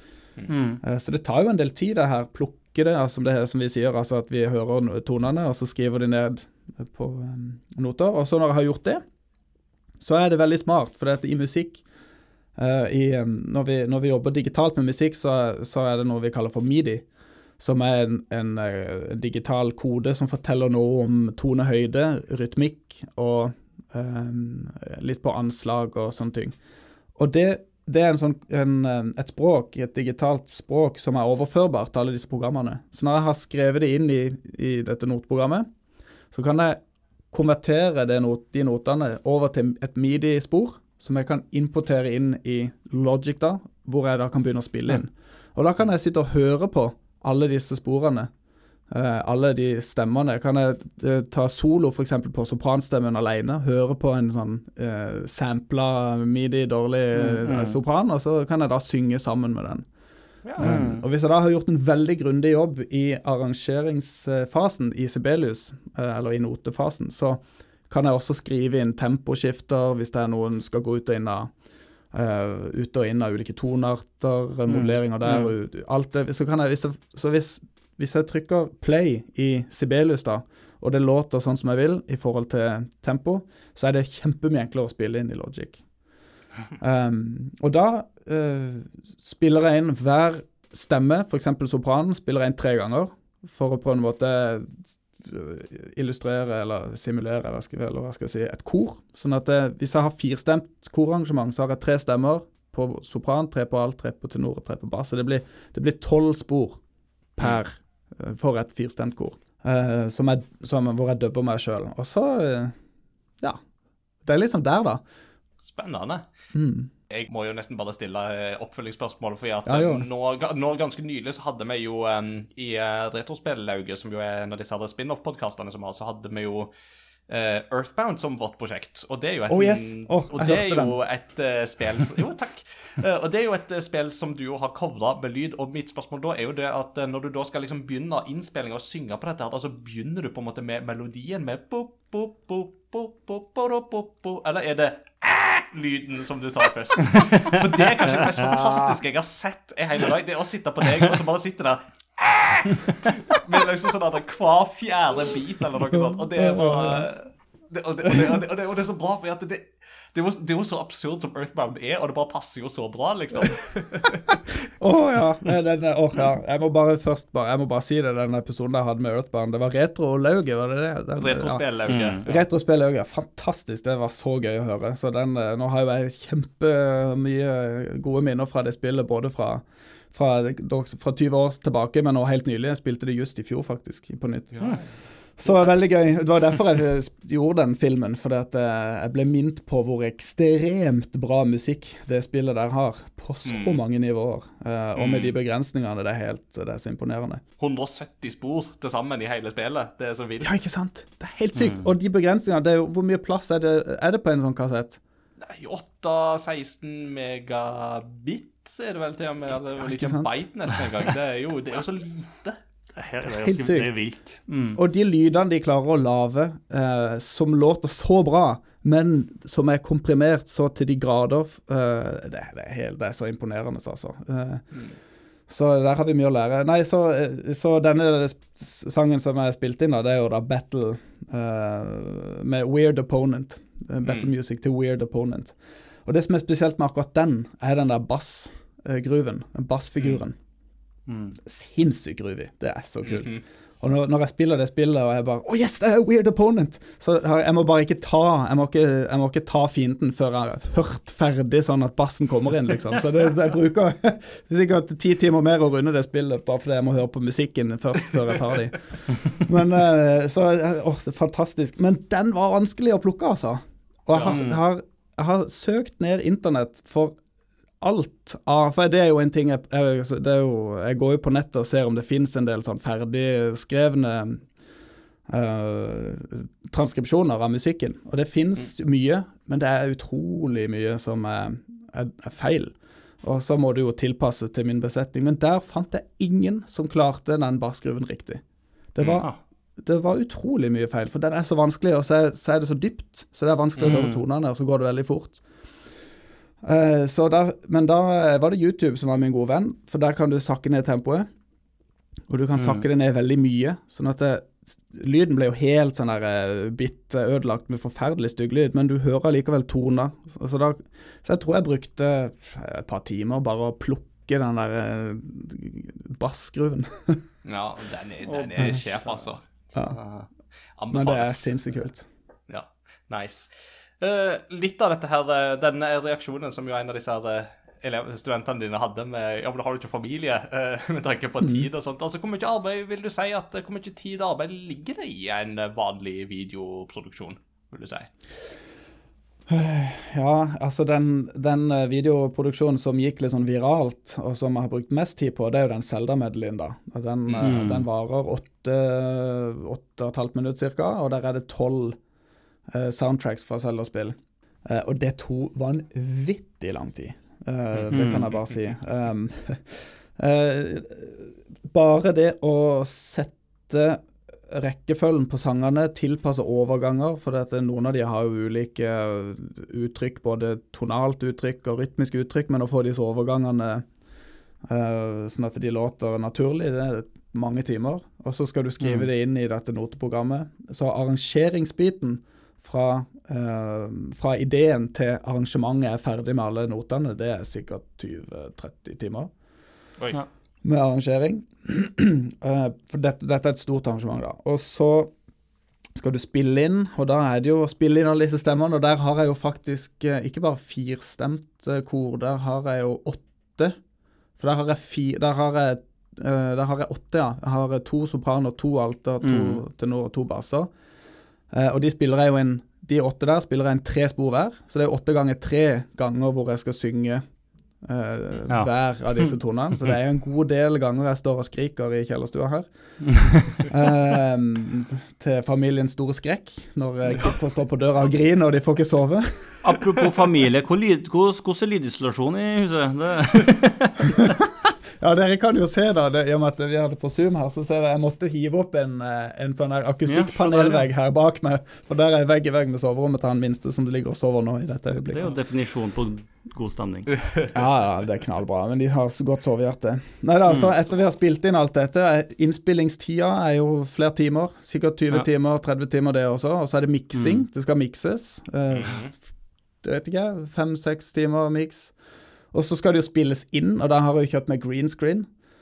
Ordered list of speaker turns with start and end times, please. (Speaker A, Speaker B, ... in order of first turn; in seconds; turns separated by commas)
Speaker A: 0.5-0.8, Speaker B: 0.8-9.0, Speaker B: 10.0-11.8, Speaker B: 12.6-17.1, Speaker B: 17.6-26.6, Speaker B: 27.2-35.7, Speaker B: 36.3-36.8, Speaker B: 37.3-48.3, Speaker B: 48.9-59.9, Speaker A: 57.1-57.8, Speaker C: 60.5-60.8, Speaker B: 60.6-71.5, Speaker A: 60.6-61.0, Speaker B: 72.1-85.8, Speaker A: 74.7-75.5, Speaker B: 86.8-106.8, Speaker B: 107.4-112.8, Speaker B: 114.2-115.0, Speaker C: 115.6-116.2, Speaker B: 116.5-116.9, Speaker C: 117.1-126.7, Speaker B: 119.7-120.1, Speaker C: 127.3-164.4, Speaker B: 129.5-131.0, Speaker A: 147.1-148.8, Speaker B: 156.4-157.1, Speaker B: 164.8-171.6, Speaker C: 171.2-172.4, Speaker A: 171.9-172.3, Speaker B: 172.2-184.7, Speaker C: 184.6-184.8, Speaker B: 185.4-197.4, Speaker C: 185.5-185.8, Speaker C: 193.4-193.8, Speaker C: 195.0-195.3, Speaker C: 197.6-200.6, Speaker B: 200.4-205.0, Speaker A: 201.6-201.9, Speaker C: 205.4-212.6, Speaker B: 209.8-210.3, Speaker A: 213.0-214.8, Speaker B: 213.2-214.0, Speaker B: 214.8-224.7, Speaker B: 225.5-240.4, Speaker A: 241.1-241.4, Speaker B: 241.4-267.1, Speaker C: 243.1-243.4, Speaker C: 264.1-264.5, Speaker A: 264.3-264.6, Speaker B: 267.8-274.4, Speaker B: 275.3-288.4, Speaker B: 288.9-289.3, Speaker B: 289.8-295.4, Speaker C: 293.8-294.1, Speaker A: 293.9-294.2, Speaker B: 296.6-301.3, Speaker B: 302.3-317.2, Speaker A: 302.6-302.9, Speaker C: 317.4-319.4, Speaker A: 318.2-319.2, Speaker C: 320.8-321.6, Speaker B: 320.9-322.1, Speaker C: 322.5-338.1, Speaker B: 331.4-331.7, Speaker B: 339.5-352.0, Speaker C: 347.3-347.6, Speaker A: 347.4-347.9, Speaker B: 352.7-373.9, Speaker A: 357.9-358.3, Speaker B: 374.6-389.3, Speaker A: 378.8-379.1, Speaker B: 390.6-395.1, Speaker B: 395.9-403.8, Speaker B: 404.4-410.7, Speaker A: 409.2-409.6, Speaker B: 411.5-417.2, Speaker B: 417.8-422.7, Speaker A: 423.1-423.6, Speaker B: 423.6-429.6, Speaker A: 429.6-434.2, Speaker B: 435.0-445.3, Speaker A: 440.1-440.9, Speaker A: 445.1-447.1, Speaker B: 447.5-459.1, Speaker A: 457.1-457.4, Speaker C: 458.7-459.1, Speaker B: 459.8-461.9, Speaker B: 462.5-465.3